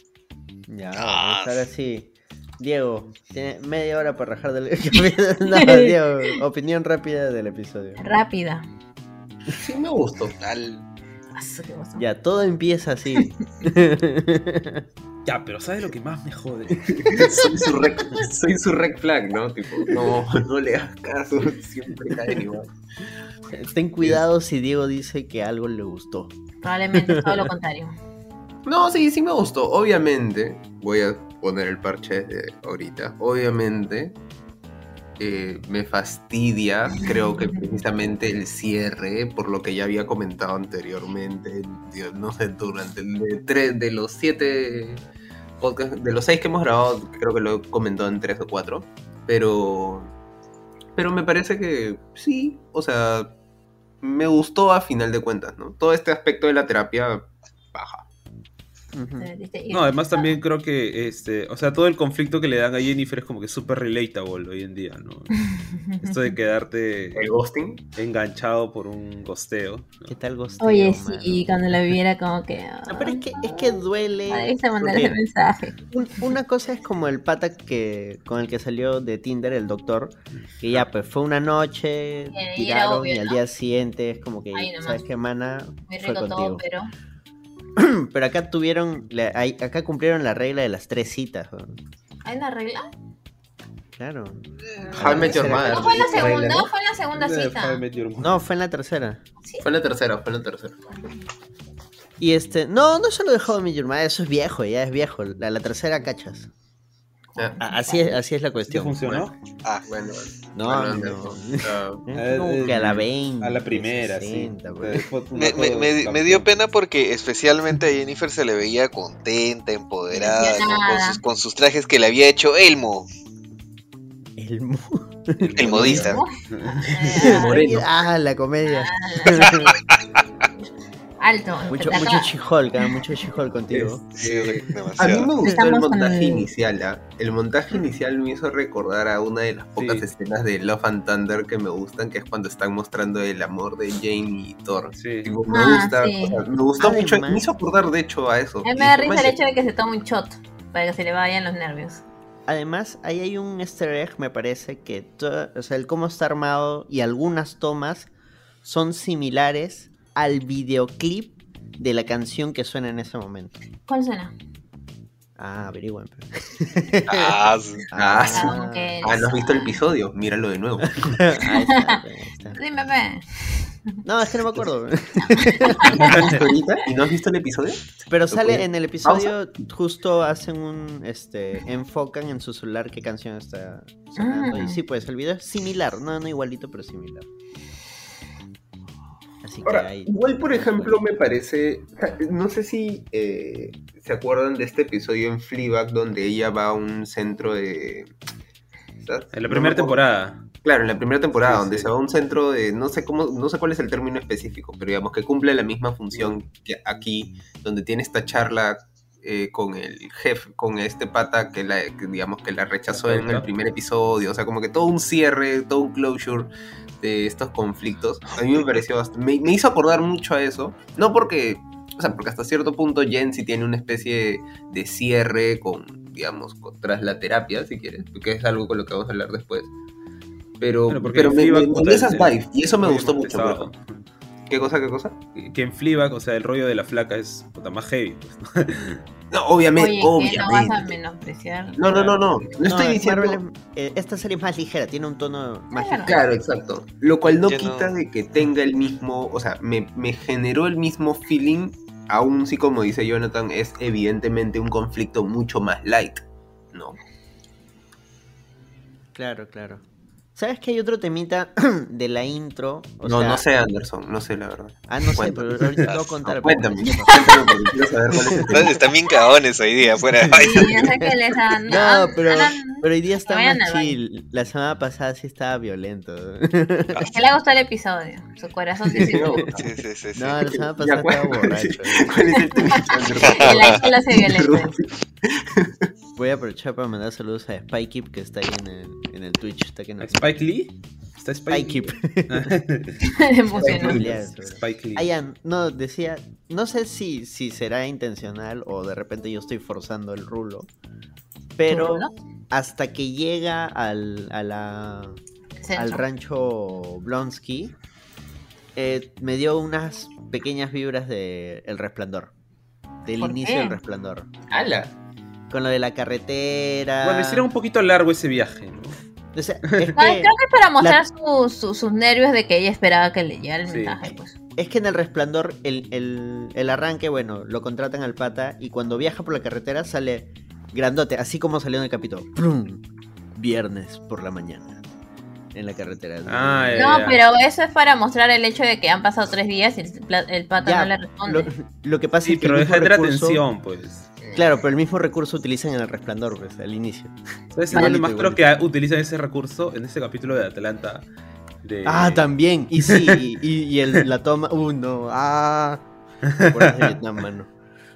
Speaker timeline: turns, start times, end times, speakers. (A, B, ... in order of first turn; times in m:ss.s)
0:00.7-0:08.0 A
0:01.0-0:01.5 B
0:05.5-0:05.9 C
0:08.0-0:08.6 C
0:09.5-0:10.4 D
0:10.4-0:10.8 B
0:11.3-0:12.0 C
0:12.0-0:14.8 A
0:15.2-0:17.2 E
0:16.9-0:22.7 D
0:17.2-0:17.5 C
0:23.5-0:26.4 A
0:26.6-0:27.9 C
0:26.9-0:27.5 A
0:28.6-0:34.1 D
0:35.2-0:45.0 D
0:37.0-0:37.7 C
0:45.6-0:50.1 D
0:51.0-0:53.3 D
0:54.0-0:58.0 D
0:58.9-0:59.3 A
0:59.2-1:00.3 C
0:59.7-1:05.4 E
1:05.3-1:06.3 C
1:06.0-1:07.2 E
1:07.1-1:07.8 D
1:08.0-1:10.1 E
1:10.1-1:11.6 A
1:10.6-1:15.8 C
1:12.9-1:15.2 A
1:15.9-1:26.6 A
1:22.3-1:23.4 C
1:24.5-1:25.0 C
1:25.9-1:26.9 C
1:27.8-1:31.8 A
1:32.2-1:32.9 C
1:34.0-1:36.3 A
1:34.9-1:36.7 D
1:35.0-1:37.8 C
1:37.1-1:38.4 E
1:38.2-1:39.2 A
1:39.6-1:40.8 D
1:42.2-1:46.5 A
1:47.5-1:48.2 C
1:47.6-1:49.1 A
1:48.7-1:49.3 E
1:49.8-1:52.0 D
1:50.5-1:55.1 A
1:52.1-1:56.6 E
1:55.3-2:03.1 B
2:00.1-2:01.2 C
2:04.4-2:06.1 A
2:05.4-2:07.2 E
2:05.6-2:06.2 B
2:05.7-2:06.0 D
2:06.0-2:07.6 C
2:07.2-2:07.9 D
2:07.2-2:09.8 A
2:08.6-2:09.5 C
2:11.2-2:12.3 C
2:11.7-2:14.0 A
2:13.7-2:29.4 D
2:14.1-2:15.4 B
2:15.4-2:16.5 C
2:19.8-2:20.1 E
2:25.0-2:25.4 E
2:25.5-2:26.4 C
2:26.8-2:27.5 A
2:28.6-2:32.0 C
2:32.5-2:38.1 A
2:38.6-2:43.6 A
2:43.9-2:44.3 C
2:45.4-2:47.4 A
2:47.1-2:47.8 B
2:47.9-2:48.9 A
2:48.0-2:51.2 D
2:48.3-2:49.8 C
2:50.8-2:52.6 A
2:51.7-2:52.0 C
2:52.5-2:53.8 C
2:54.0-2:56.0 A
2:55.4-2:56.3 C
2:56.0-2:59.3 D
2:56.0-2:56.3 E
2:58.1-3:07.3 A
3:04.2-3:04.8 C
3:09.4-3:11.2 A
3:09.6-3:18.1 D
3:19.0-3:20.0 D
3:19.3-3:20.4 E
3:20.6-3:49.7 D
3:21.4-3:21.9 E
3:32.9-3:33.5 E
3:50.6-3:53.7 D
3:50.9-3:53.8 E
3:54.5-3:55.2 D
3:55.4-3:59.0 E
3:59.3-4:01.0 D
3:59.8-4:02.6 C
4:01.8-4:03.4 D
4:02.6-4:06.2 A
4:05.7-4:06.2 C
4:06.0-4:16.9 D
4:07.3-4:07.9 B
4:19.1-4:19.8 A
4:20.4-4:23.4 A
4:23.0-4:28.7 D
4:24.9-4:27.4 A
4:27.1-4:27.6 C
4:28.4-4:31.1 B
4:30.2-4:31.0 A
4:30.3-4:34.0 C
4:31.7-4:37.0 A
4:37.0-4:39.4 C
4:38.9-4:39.6 D
4:39.1-4:39.6 A
4:39.5-4:40.6 B
4:40.1-4:42.1 A
4:40.6-4:45.9 D
4:42.5-4:44.8 C
4:43.3-4:43.8 B
4:46.2-4:50.2 A
4:50.0-4:53.0 E
4:51.5-4:52.5 A
4:53.1-4:54.0 C
4:53.5-5:00.7 A
4:53.6-4:54.2 D
4:54.4-4:55.1 E
5:01.6-5:05.2 A
5:01.7-5:02.1 C
5:05.6-5:06.0 C
5:05.7-5:07.7 A
5:08.7-5:12.3 A
5:13.0-5:14.3 A
5:13.2-5:13.8 C
5:14.5-5:14.9 D
5:15.5-5:17.4 A
5:17.0-5:19.0 E
5:19.3-5:21.0 A
5:19.9-5:24.4 C
5:23.6-5:24.1 E
5:24.6-5:32.8 A
5:33.4-5:34.8 A
5:35.5-5:37.0 A
5:36.2-5:37.2 E
5:36.8-5:41.5 C
5:40.6-5:43.4 A
5:42.2-5:44.1 E
5:44.2-5:44.5 D
5:44.3-5:47.2 A
5:47.5-5:51.0 E
5:47.7-5:48.4 A
5:47.7-5:48.0 C
5:51.6-5:53.2 E
5:51.8-5:55.8 A
5:56.4-5:57.5 A
5:56.4-5:56.9 E